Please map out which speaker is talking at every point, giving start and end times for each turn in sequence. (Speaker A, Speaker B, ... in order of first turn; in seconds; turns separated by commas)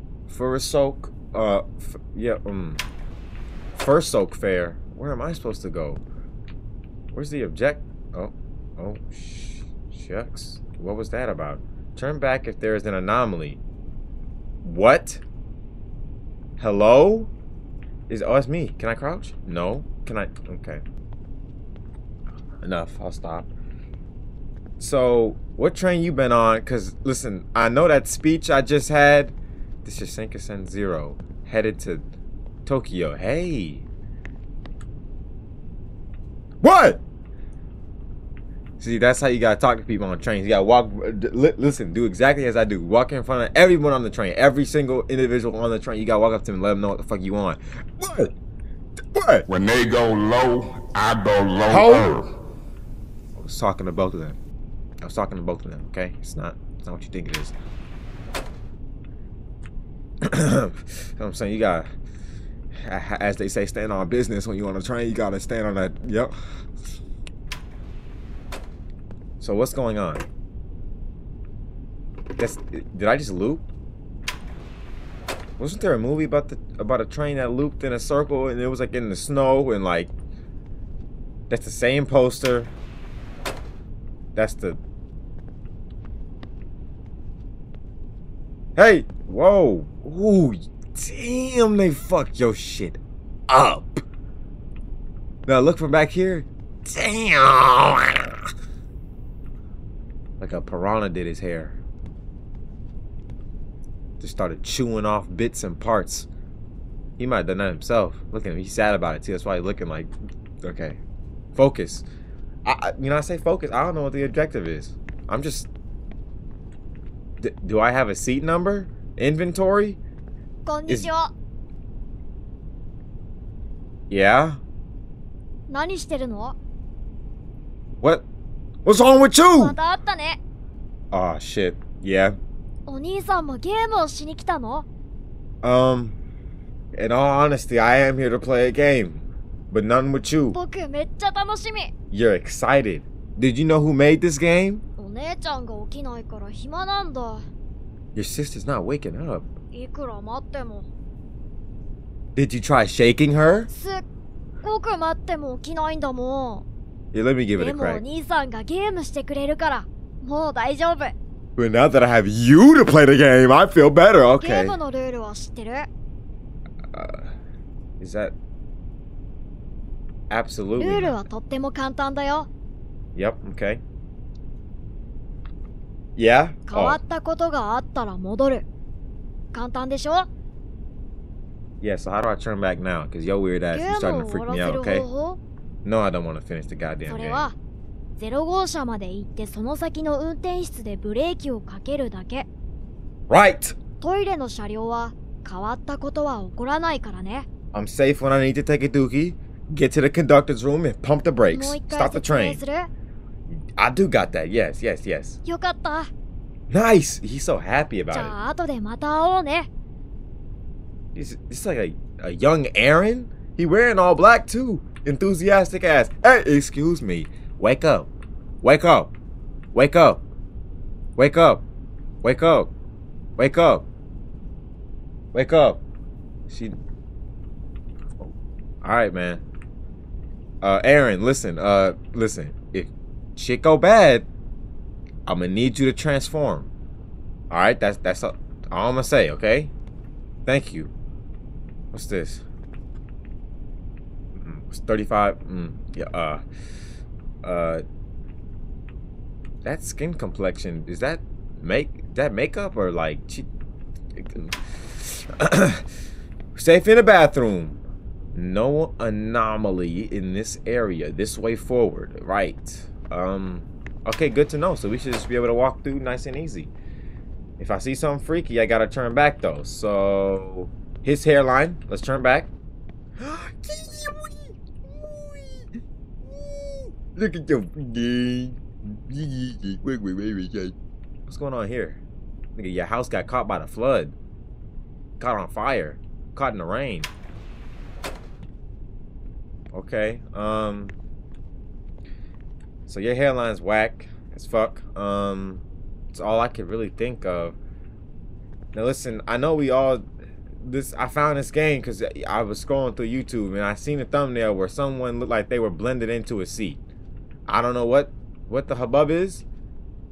Speaker A: 0.3-2.8, Speaker A: 3.7-6.0, Speaker A: 7.1-13.6, Speaker A: 14.6-15.2, Speaker A: 16.6-17.3, Speaker A: 18.1-20.8, Speaker A: 22.6-23.5, Speaker A: 24.8-32.0, Speaker A: 32.6-33.9, Speaker A: 36.6-37.0, Speaker A: 38.8-48.3, Speaker A: 49.1-49.5, Speaker B: 49.5-52.2, Speaker A: 51.7-52.2, Speaker A: 53.4-54.4, Speaker A: 55.0-57.5, Speaker A: 60.2-61.9, Speaker A: 62.7-66.3, Speaker A: 69.4-70.2, Speaker A: 72.4-73.7, Speaker A: 75.6-80.1, Speaker A: 81.5-82.7, Speaker A: 84.3-84.8, Speaker A: 88.8-94.0, Speaker A: 95.5-98.4, Speaker A: 100.4-101.8, Speaker A: 104.2-106.3, Speaker A: 107.2-110.1, Speaker A: 110.6-111.0, Speaker A: 111.5-112.0, Speaker A: 112.6-115.7, Speaker A: 117.4-120.0, Speaker C: 120.7-121.3, Speaker A: 124.1-124.6, Speaker C: 125.7-126.5, Speaker A: 128.8-129.8, Speaker C: 129.6-130.4, Speaker A: 131.1-132.4, Speaker C: 132.9-134.8, Speaker A: 135.6-136.2, Speaker A: 136.9-140.6, Speaker C: 140.5-141.9, Speaker A: 142.1-144.8, Speaker C: 145.0-147.5, Speaker A: 148.1-149.5, Speaker C: 149.7-150.9, Speaker A: 152.3-153.7, Speaker C: 153.7-154.0, Speaker C: 154.6-156.7, Speaker A: 157.1-158.0, Speaker C: 157.6-161.1, Speaker A: 161.6-164.8, Speaker C: 164.4-165.9, Speaker A: 166.9-167.3, Speaker A: 168.0-168.3, Speaker A: 170.3-171.2, Speaker C: 170.8-172.5, Speaker A: 173.1-173.8, Speaker A: 176.2-177.0, Speaker C: 176.7-178.7, Speaker C: 179.5-180.3, Speaker A: 181.8-185.1, Speaker C: 183.7-185.4, Speaker A: 185.8-187.5, Speaker C: 187.1-187.6, Speaker C: 188.2-192.5, Speaker A: 193.3-193.8, Speaker C: 194.0-197.5, Speaker A: 197.7-202.6, Speaker C: 201.5-202.9, Speaker A: 203.8-205.4, Speaker C: 205.4-206.1, Speaker A: 206.7-208.3, Speaker C: 208.1-209.7, Speaker A: 211.1-218.1, Speaker A: 218.6-219.1, Speaker A: 219.7-220.2, Speaker A: 221.2-221.6, Speaker A: 222.2-222.7, Speaker A: 223.4-223.8, Speaker A: 225.3-225.8, Speaker A: 226.5-226.8, Speaker A: 228.8-229.4, Speaker A: 230.6-234.3, Speaker A: 235.2-236.7, Speaker A: 237.5-239.7, Speaker A: 240.4-240.9, Speaker A: 241.9-242.4, Speaker A: 244.3-246.4, Speaker A: 247.4-247.8, Speaker A: 249.6-253.5, Speaker A: 254.2-255.8, Speaker A: 256.6-257.8, Speaker A: 258.3-266.7, Speaker A: 267.6-272.5, Speaker A: 273.2-275.6, Speaker A: 276.3-280.7, Speaker A: 281.3-282.0, Speaker A: 282.6-284.1, Speaker A: 285.2-287.1, Speaker A: 289.7-290.9, Speaker A: 292.9-297.6, Speaker A: 298.7-300.0, Speaker A: 300.6-306.8, Speaker A: 307.5-309.4